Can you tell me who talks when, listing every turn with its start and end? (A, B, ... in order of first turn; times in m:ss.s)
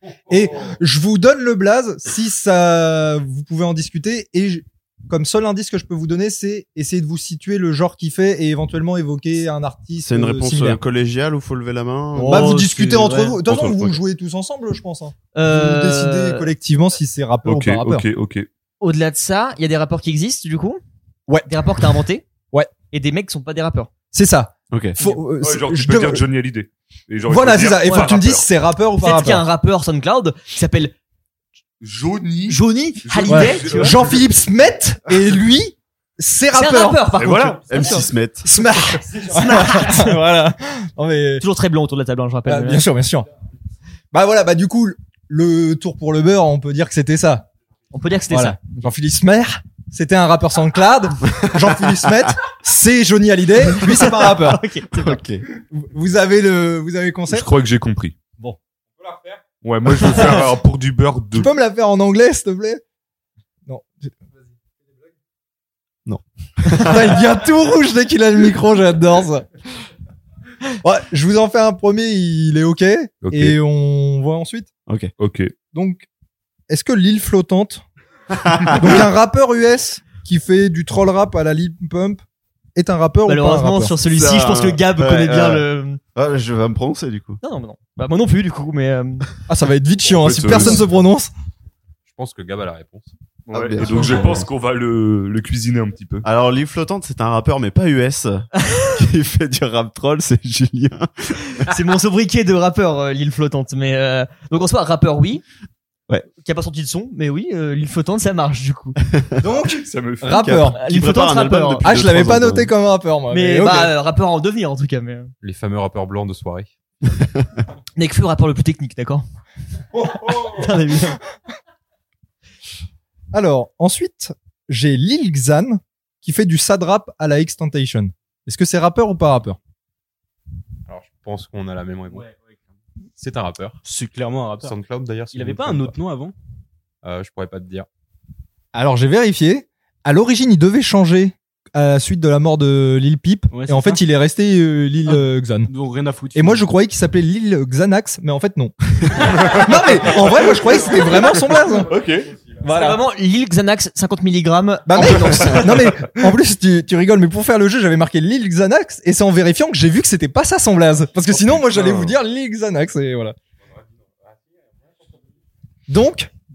0:00.3-0:10.8 A
0:10.0-0:14.0 B
0:12.1-0:18.1 A
0:12.2-0:13.4 C
0:15.3-0:16.5 C
0:17.4-0:18.5 D
0:18.8-0:20.8 C
0:21.3-0:21.9 A
0:21.4-0:22.3 C
0:22.9-0:23.9 C
0:24.1-0:26.2 A
0:24.7-0:25.0 B
0:25.4-0:28.5 D
0:27.3-0:29.5 A
0:27.8-0:28.1 C
0:29.0-0:31.0 C
0:31.8-0:34.2 D
0:32.5-0:34.0 C
0:33.3-0:37.2 A
0:36.5-0:38.1 C
0:37.2-0:37.6 D
0:37.7-0:38.5 B
0:38.4-0:41.4 A
0:39.0-0:40.3 C
0:41.4-0:42.8 C
0:42.4-0:43.3 A
0:44.1-0:47.5 A
0:47.9-0:48.9 C
0:48.3-0:54.6 A
0:54.2-0:55.2 C
0:54.9-0:55.4 B
0:55.7-0:57.5 A
0:57.3-0:58.2 D
0:59.0-0:59.4 E
0:59.6-1:01.5 D
1:00.0-1:00.5 A
1:01.3-1:02.8 A
1:03.7-1:04.2 A
1:06.6-1:09.5 A
1:10.8-1:14.7 A
1:13.2-1:13.6 D
1:14.9-1:15.1 B
1:15.2-1:15.5 D
1:15.7-1:16.1 A
1:16.7-1:17.8 A
1:18.4-1:19.0 B
1:18.7-1:22.2 A
1:22.8-1:24.0 A
1:23.3-1:26.0 C
1:24.0-1:27.4 B
1:27.4-1:29.3 C
1:29.5-1:31.3 A
1:30.1-1:30.9 D
1:32.1-1:33.1 E
1:33.5-1:36.2 D
1:33.5-1:34.5 B
1:36.2-1:41.6 B
1:41.6-1:45.4 C
1:46.4-1:49.0 C
1:49.4-1:50.8 A
1:49.9-1:50.6 D
1:50.3-1:52.7 B
1:50.8-1:51.9 C
1:51.8-1:54.0 A
1:53.3-1:55.3 C
1:55.4-1:56.7 E
1:58.0-1:59.2 C
2:00.2-2:01.2 C
2:03.3-2:09.6 A
2:10.9-2:12.3 E
2:13.2-2:13.8 E
2:13.8-2:14.8 F
2:14.6-2:16.0 E
2:15.3-2:16.3 F
2:17.0-2:17.9 E
2:18.7-2:25.7 A
2:23.5-2:24.0 F
2:25.1-2:26.7 F
2:26.3-2:32.0 A
2:29.4-2:30.0 D
2:31.9-2:32.3 D
2:32.6-2:33.0 A
2:32.7-2:35.9 C
2:34.9-2:43.4 A
2:41.7-2:42.1 D
2:45.9-2:46.3 A